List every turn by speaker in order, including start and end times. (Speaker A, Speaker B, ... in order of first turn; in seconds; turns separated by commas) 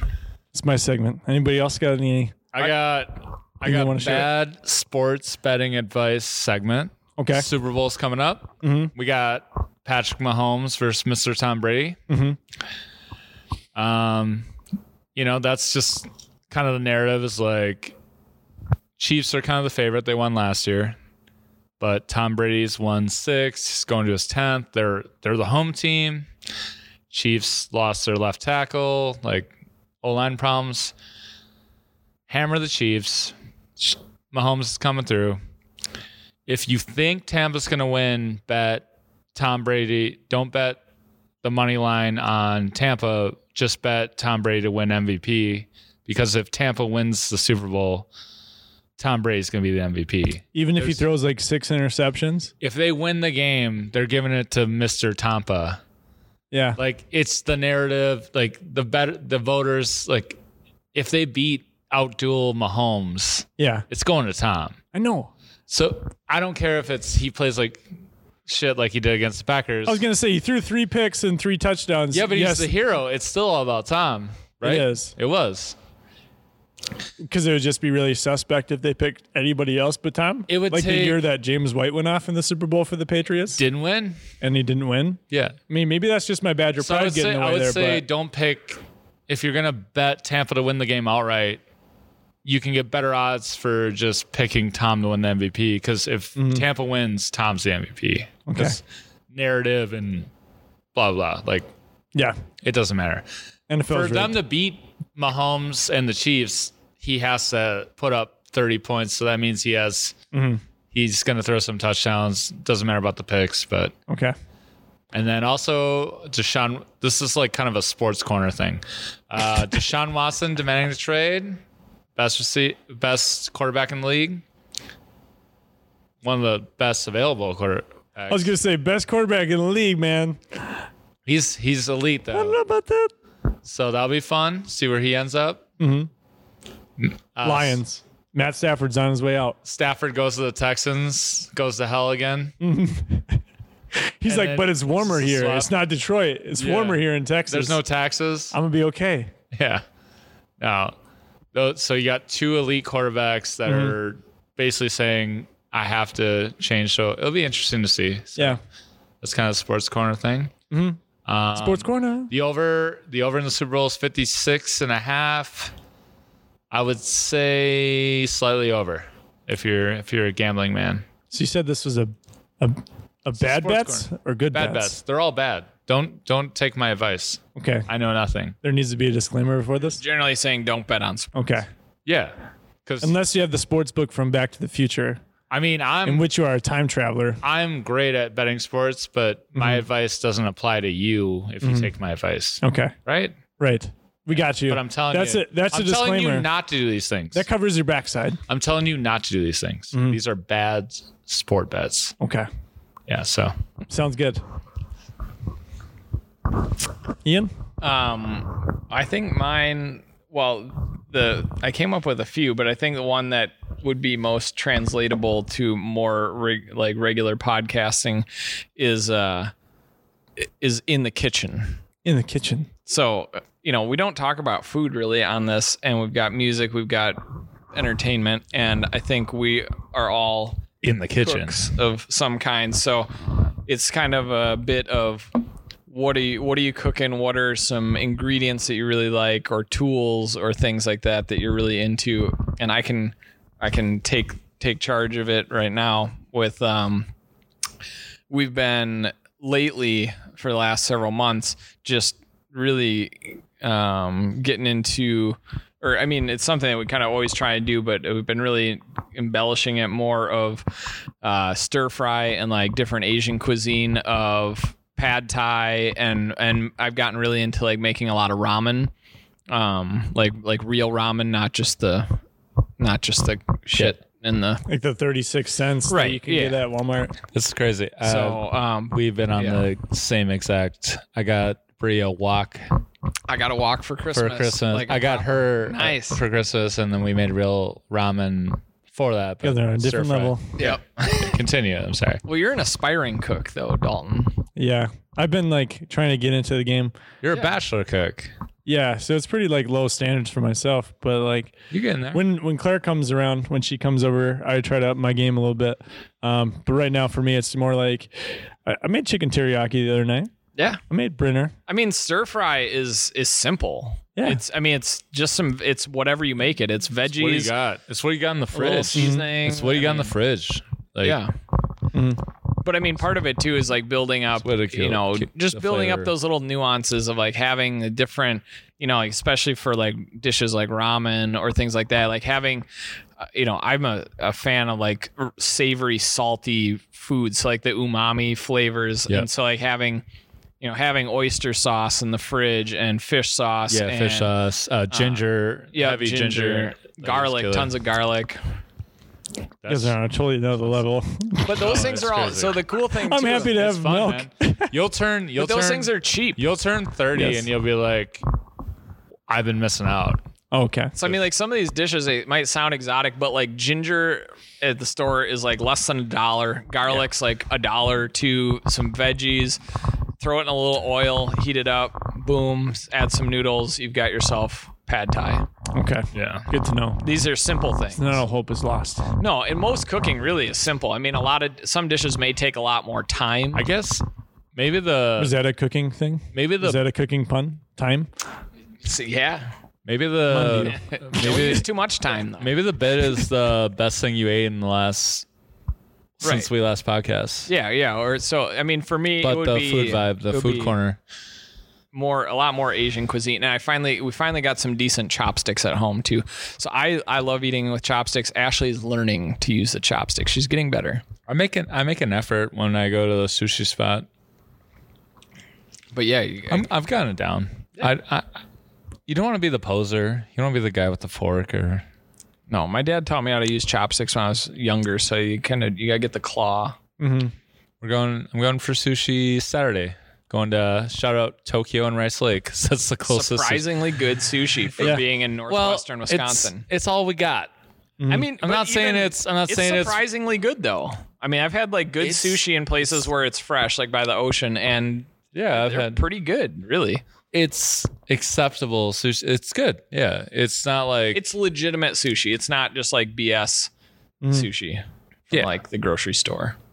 Speaker A: 0.5-2.7, Speaker B: 2.5-12.0, Speaker A: 3.6-4.3, Speaker A: 7.2-7.5, Speaker A: 8.6-8.9, Speaker A: 12.1-12.4, Speaker B: 13.8-14.5, Speaker B: 15.2-17.9, Speaker B: 19.0-21.0, Speaker B: 21.8-26.3, Speaker B: 27.1-29.5, Speaker B: 30.0-30.9, Speaker B: 32.3-35.4, Speaker B: 36.5-40.8, Speaker B: 41.4-48.1, Speaker B: 49.0-51.0, Speaker A: 50.5-52.5, Speaker B: 52.6-55.8, Speaker A: 56.5-56.8, Speaker B: 56.8-60.4, Speaker B: 60.9-64.8, Speaker A: 63.6-63.9, Speaker A: 64.9-65.3, Speaker B: 65.7-67.8, Speaker B: 68.5-70.0, Speaker A: 69.9-72.7, Speaker B: 72.1-75.8, Speaker A: 74.6-75.1, Speaker A: 77.2-83.6, Speaker B: 80.5-81.2, Speaker B: 83.5-84.2, Speaker A: 84.4-88.0, Speaker B: 85.3-85.6, Speaker B: 86.8-91.6, Speaker B: 92.5-100.3, Speaker A: 96.4-96.7, Speaker A: 98.5-98.8, Speaker B: 100.9-101.7, Speaker B: 102.6-103.3, Speaker A: 103.7-104.4, Speaker B: 103.9-110.2, Speaker A: 110.3-110.6, Speaker B: 110.9-113.9, Speaker A: 114.1-114.3, Speaker B: 115.1-121.6, Speaker B: 122.2-124.4, Speaker B: 126.2-128.5, Speaker A: 128.3-130.8, Speaker B: 131.3-132.6, Speaker A: 132.3-133.1, Speaker B: 133.7-135.7, Speaker A: 135.8-136.1, Speaker B: 137.0-137.8, Speaker A: 137.4-139.6, Speaker B: 139.7-142.5, Speaker A: 142.6-143.4, Speaker A: 143.9-147.8, Speaker B: 144.3-145.7, Speaker B: 146.6-148.6, Speaker A: 148.5-149.3, Speaker B: 149.5-149.8, Speaker B: 150.6-150.9, Speaker B: 151.5-158.6, Speaker A: 153.7-153.9, Speaker B: 159.2-160.5, Speaker A: 160.7-161.0, Speaker B: 161.2-165.7, Speaker A: 161.6-162.3, Speaker B: 166.7-171.1, Speaker A: 171.3-174.9, Speaker B: 173.4-178.6, Speaker A: 177.6-177.9, Speaker A: 178.6-180.0, Speaker C: 179.9-181.4, Speaker A: 181.3-181.7, Speaker B: 182.1-182.3, Speaker B: 182.8-183.1, Speaker A: 183.0-185.2, Speaker B: 185.5-186.3, Speaker A: 186.1-187.4, Speaker B: 187.4-193.4, Speaker A: 189.6-189.8, Speaker A: 191.6-191.9, Speaker A: 192.6-193.0, Speaker A: 193.6-196.5, Speaker B: 194.4-197.5, Speaker A: 197.3-198.4, Speaker B: 198.5-202.2, Speaker A: 199.9-200.2, Speaker A: 202.2-202.5, Speaker B: 203.1-203.5, Speaker A: 203.9-204.4, Speaker A: 207.2-207.5, Speaker C: 207.8-219.5, Speaker C: 220.4-221.8, Speaker A: 222.0-222.7, Speaker C: 222.9-230.7, Speaker B: 230.8-231.7, Speaker C: 231.2-233.1, Speaker C: 233.6-235.3, Speaker C: 235.9-247.1, Speaker C: 248.3-268.9, Speaker C: 269.5-272.2, Speaker C: 272.8-274.6, Speaker A: 274.7-277.2, Speaker C: 275.9-276.6, Speaker B: 277.3-282.7, Speaker C: 278.0-279.7, Speaker C: 283.3-286.2, Speaker B: 284.1-292.2, Speaker A: 289.4-290.6, Speaker C: 290.6-291.3, Speaker C: 292.2-294.4, Speaker A: 294.6-296.9, Speaker B: 297.2-298.3, Speaker A: 298.7-301.6, Speaker B: 301.7-302.3, Speaker A: 302.1-310.3, Speaker C: 310.6-310.8, Speaker A: 310.9-311.5, Speaker C: 311.7-317.5, Speaker B: 317.1-321.2, Speaker C: 318.5-320.1, Speaker A: 318.9-319.3, Speaker C: 321.0-321.3, Speaker A: 321.9-322.2, Speaker C: 322.6-332.7, Speaker B: 324.4-326.1, Speaker C: 333.2-340.1, Speaker C: 340.6-344.3, Speaker B: 343.7-347.7, Speaker C: 344.9-348.4, Speaker B: 349.6-350.0, Speaker A: 349.7-351.9, Speaker C: 351.4-353.7, Speaker B: 351.5-352.6, Speaker A: 353.0-354.8, Speaker B: 353.4-358.2, Speaker C: 355.4-356.4, Speaker A: 357.1-357.5, Speaker B: 359.3-360.2, Speaker A: 360.5-360.9, Speaker C: 361.0-369.6, Speaker C: 370.2-375.5, Speaker A: 375.7-377.0, Speaker B: 376.1-376.5, Speaker C: 377.0-378.2, Speaker A: 377.9-379.1, Speaker C: 379.2-383.7, Speaker B: 383.6-385.3, Speaker A: 385.2-388.1, Speaker B: 386.3-386.8, Speaker C: 388.8-389.5, Speaker B: 389.9-391.7, Speaker A: 390.3-390.8, Speaker C: 390.5-392.5, Speaker B: 392.4-395.2, Speaker B: 396.2-397.5, Speaker C: 396.2-396.5, Speaker C: 397.5-400.8, Speaker B: 399.2-401.0, Speaker C: 401.9-411.0, Speaker B: 411.3-414.1, Speaker C: 415.9-416.7, Speaker B: 416.5-418.4, Speaker B: 419.1-421.9, Speaker C: 422.5-426.8, Speaker A: 427.0-427.3, Speaker B: 427.8-433.7, Speaker C: 433.1-436.7, Speaker B: 434.8-437.5, Speaker A: 438.0-438.3, Speaker C: 438.1-447.0, Speaker B: 438.4-440.0, Speaker B: 442.0-442.4, Speaker B: 445.3-446.0, Speaker B: 447.3-451.2, Speaker C: 451.1-453.7, Speaker A: 454.2-454.5, Speaker C: 454.3-456.6